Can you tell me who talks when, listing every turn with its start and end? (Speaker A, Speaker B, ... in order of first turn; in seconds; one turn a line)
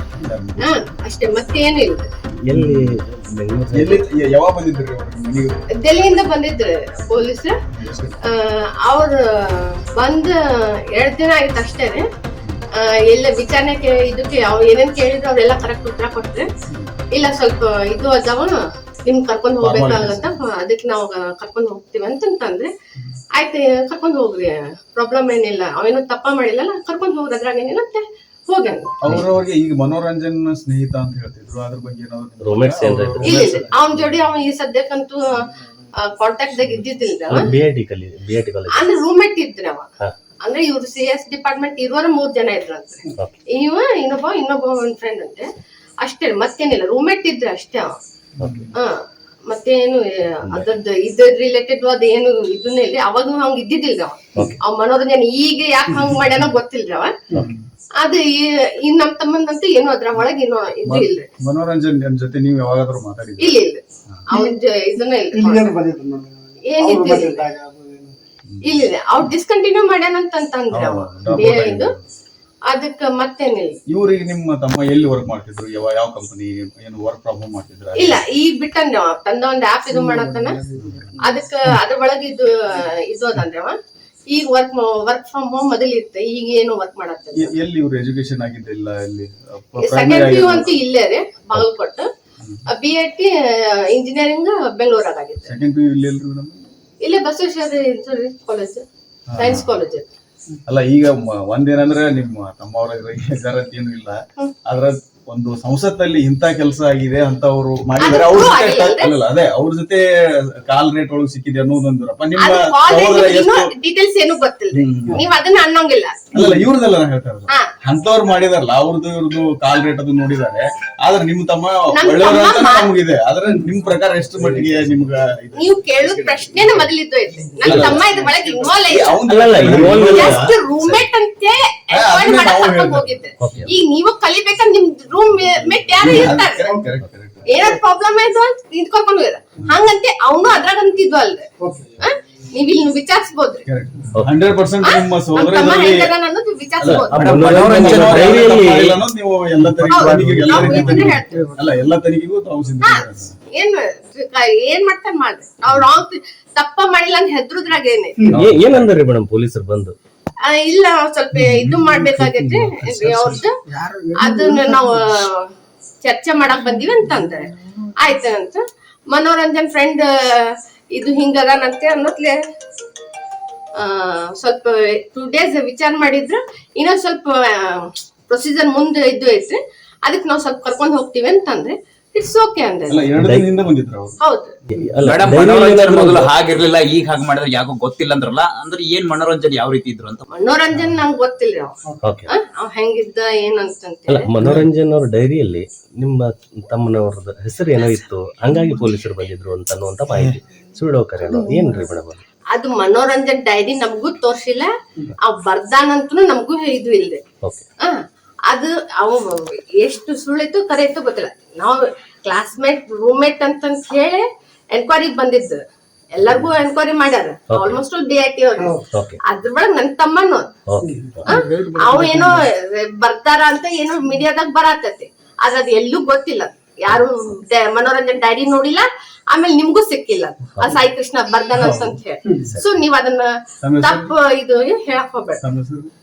Speaker A: 0.2-0.8
Speaker B: 0.6-2.1
Speaker C: 2.4-4.0
Speaker A: 2.5-2.9
Speaker A: 3.7-5.6
Speaker B: 5.8-7.5
Speaker A: 7.7-8.2
Speaker B: 8.2-10.3
Speaker B: 10.9-12.1
Speaker B: 12.8-16.5
Speaker B: 17.1-22.7
Speaker A: 19.6-20.3
Speaker B: 23.4-29.2
Speaker A: 29.0-34.1
Speaker C: 29.1-29.4
Speaker C: 32.4-33.6
Speaker B: 33.2-37.5
Speaker C: 37.3-38.9
Speaker B: 38.7-39.9
Speaker B: 40.4-45.5
Speaker B: 46.0-47.9
Speaker C: 48.4-48.6
Speaker A: 48.4-48.7
Speaker B: 48.7-57.1
Speaker A: 57.3-57.6
Speaker B: 58.0-61.3
Speaker A: 60.8-63.6
Speaker B: 63.4-65.7
Speaker D: 65.3-68.2
Speaker B: 66.6-67.5
Speaker A: 68.5-69.3
Speaker B: 68.6-71.9
Speaker A: 70.7-72.1
Speaker B: 72.7-73.8
Speaker A: 73.9-78.2
Speaker B: 77.9-80.6
Speaker D: 80.0-81.2
Speaker A: 80.5-81.0
Speaker B: 81.2-83.7
Speaker B: 84.3-87.5
Speaker A: 87.3-90.8
Speaker B: 89.8-92.1
Speaker B: 92.7-95.6
Speaker A: 95.4-96.7
Speaker B: 97.0-98.8
Speaker A: 99.3-99.7
Speaker B: 99.3-100.0
Speaker A: 100.7-110.0
Speaker B: 108.0-109.1
Speaker A: 110.7-113.7
Speaker B: 112.3-116.2
Speaker A: 114.7-115.2
Speaker A: 116.3-126.9
Speaker B: 121.9-122.9
Speaker B: 125.5-136.7
Speaker A: 127.6-131.0
Speaker C: 127.7-127.9
Speaker C: 129.2-130.5
Speaker A: 131.9-133.2
Speaker C: 133.4-133.7
Speaker A: 135.6-137.5
Speaker D: 136.0-136.9
Speaker B: 137.4-141.4
Speaker D: 141.6-142.1
Speaker B: 142.0-143.7
Speaker A: 143.7-146.1
Speaker B: 144.8-147.3
Speaker A: 146.8-153.3
Speaker C: 146.8-149.0
Speaker E: 147.1-148.7
Speaker D: 149.8-151.2
Speaker B: 149.8-151.7
Speaker B: 152.8-158.3
Speaker A: 158.3-158.9
Speaker C: 158.3-159.9
Speaker B: 160.4-163.6
Speaker D: 161.5-165.2
Speaker B: 164.2-165.4
Speaker B: 166.0-172.4
Speaker D: 166.8-167.3
Speaker B: 173.8-183.1
Speaker A: 182.9-184.2
Speaker C: 183.2-183.5
Speaker B: 184.2-184.6
Speaker C: 184.7-186.3
Speaker E: 185.0-190.2
Speaker B: 190.3-191.7
Speaker C: 192.0-192.3
Speaker B: 192.3-194.3
Speaker C: 194.1-202.2
Speaker A: 194.4-194.7
Speaker B: 202.5-207.2
Speaker B: 207.8-215.6
Speaker B: 216.1-220.5
Speaker C: 217.5-217.8
Speaker D: 218.6-218.9
Speaker C: 218.9-219.2
Speaker C: 220.7-221.4
Speaker D: 220.8-222.3
Speaker B: 221.2-235.4
Speaker A: 231.5-232.0
Speaker A: 233.6-234.1
Speaker A: 235.4-235.9